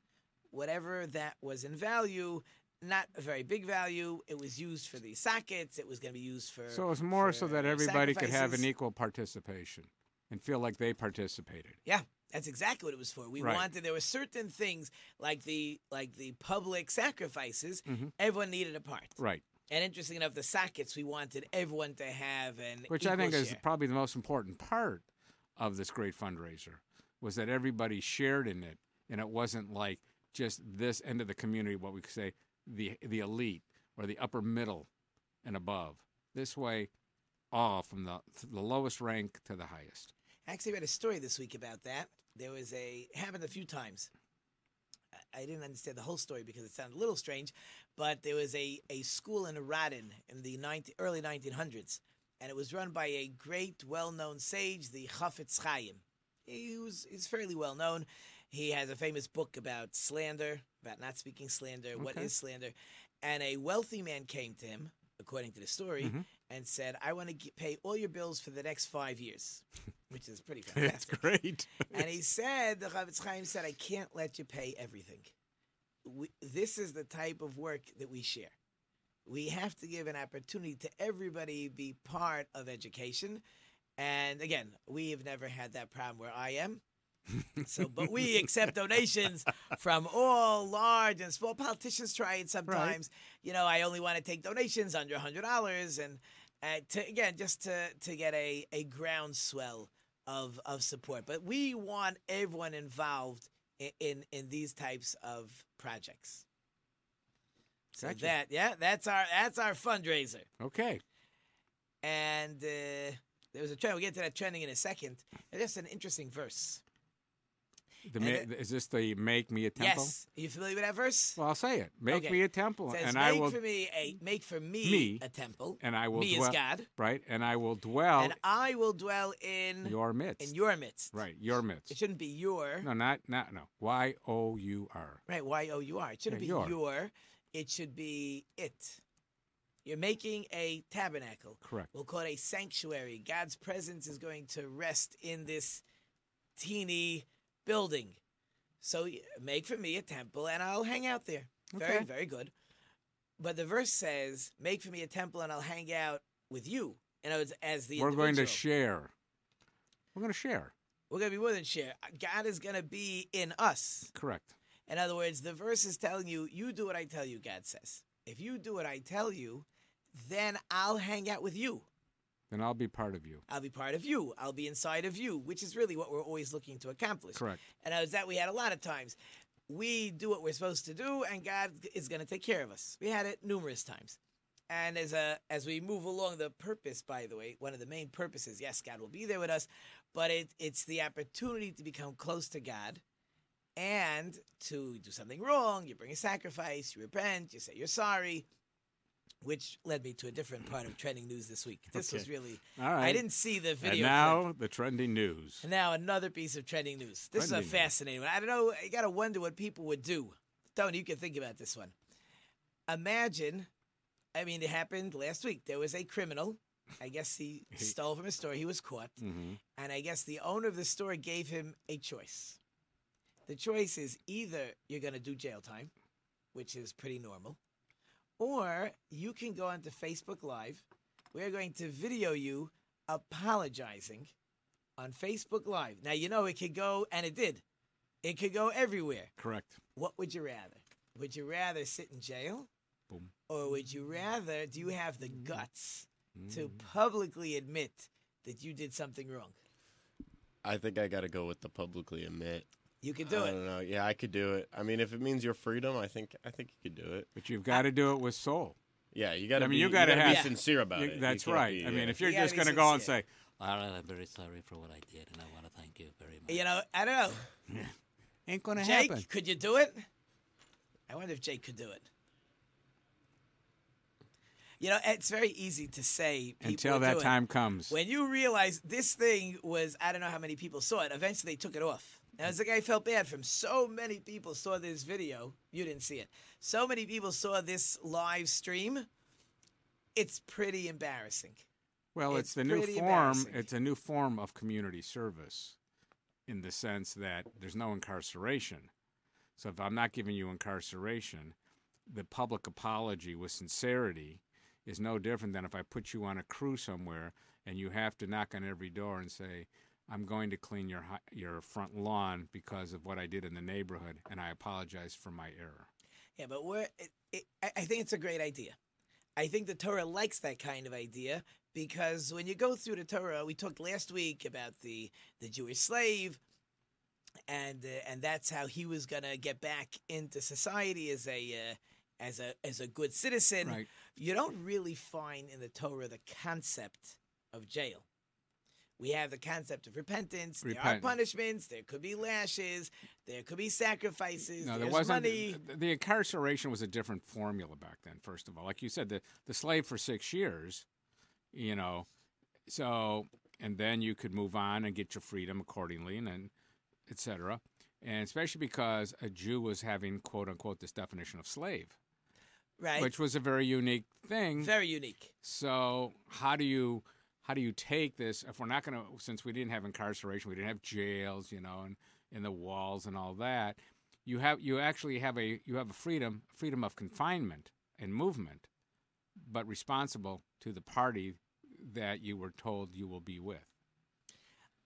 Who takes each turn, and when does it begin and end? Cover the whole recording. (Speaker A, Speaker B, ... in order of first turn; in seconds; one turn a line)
Speaker A: 0.5-8.7
Speaker B: 6.7-11.8
Speaker A: 11.8-23.6
Speaker B: 13.4-13.6
Speaker B: 17.9-18.1
Speaker B: 22.9-25.0
Speaker B: 25.6-34.9
Speaker B: 35.4-36.9
Speaker B: 37.5-40.1
Speaker A: 40.5-44.1
Speaker A: 45.3-75.3
Speaker B: 62.0-62.3
Speaker B: 70.8-72.0
Speaker A: 76.0-78.5
Speaker A: 79.2-83.4
Speaker A: 84.0-86.8
Speaker A: 87.6-106.4
Speaker B: 88.0-88.3
Speaker B: 92.7-93.0
Speaker A: 107.9-110.5
Speaker B: 108.0-108.3
Speaker B: 110.6-111.0
Speaker A: 112.0-116.8
Speaker B: 118.0-120.1
Speaker A: 118.2-118.5
Speaker A: 119.8-121.4
Speaker B: 121.4-123.6
Speaker A: 122.1-126.9
Speaker B: 124.8-125.2
Speaker B: 125.8-128.4
Speaker A: 128.2-131.2
Speaker B: 129.8-130.5
Speaker B: 131.1-131.9
Speaker A: 131.9-132.9
Speaker B: 132.8-135.2
Speaker A: 135.3-139.0
Speaker B: 136.3-136.7
Speaker A: 139.8-145.8
Speaker B: 141.6-141.9
Speaker A: 146.6-148.2
Speaker A: 148.8-152.5
Speaker B: 151.7-152.1
Speaker A: 153.4-158.6
Speaker B: 158.0-159.1
Speaker B: 160.1-160.7
Speaker A: 161.1-164.1
Speaker B: 164.1-164.5
Speaker A: 164.9-171.9
Speaker B: 172.5-173.4
Speaker A: 173.5-179.2
Speaker B: 177.3-177.6
Speaker A: 179.7-184.2
Speaker A: 184.7-193.0
Speaker A: 193.8-198.4
Speaker A: 199.4-204.4
Speaker B: 201.9-203.2
Speaker B: 203.8-205.6
Speaker A: 205.6-211.9
Speaker B: 207.3-207.9
Speaker A: 212.9-213.7
Speaker A: 214.3-219.2
Speaker B: 219.2-219.6
Speaker A: 219.7-222.6
Speaker A: 223.5-225.9
Speaker A: 226.5-227.6
Speaker A: 228.4-234.3
Speaker A: 235.0-237.6
Speaker A: 238.2-239.3
Speaker B: 239.4-239.8
Speaker A: 239.9-242.7
Speaker A: 243.5-249.6
Speaker B: 246.4-246.8
Speaker C: 250.6-252.7
Speaker A: 253.0-253.6
Speaker C: 253.2-257.3
Speaker B: 257.4-258.8
Speaker C: 259.1-262.2
Speaker B: 259.6-263.2
Speaker A: 260.2-260.5
Speaker A: 262.2-263.1
Speaker D: 263.6-266.6
Speaker A: 266.5-267.4
Speaker B: 267.7-267.9
Speaker B: 268.5-269.2
Speaker A: 268.8-270.1
Speaker A: 271.1-272.1
Speaker A: 274.8-277.4
Speaker B: 276.6-277.9
Speaker A: 277.9-289.1
Speaker A: 290.1-291.6
Speaker B: 292.1-295.8
Speaker A: 292.3-293.7
Speaker B: 296.5-298.9
Speaker B: 299.6-301.5
Speaker B: 302.1-315.9
Speaker A: 316.4-318.8
Speaker A: 319.4-326.4
Speaker A: 327.5-338.0
Speaker A: 339.0-345.6
Speaker B: 340.6-341.1
Speaker B: 344.6-350.8
Speaker B: 351.5-352.1
Speaker B: 352.7-356.5
Speaker B: 357.1-361.9
Speaker A: 362.8-363.1
Speaker B: 363.0-364.7
Speaker A: 364.6-365.3
Speaker B: 365.4-378.6
Speaker B: 379.4-383.7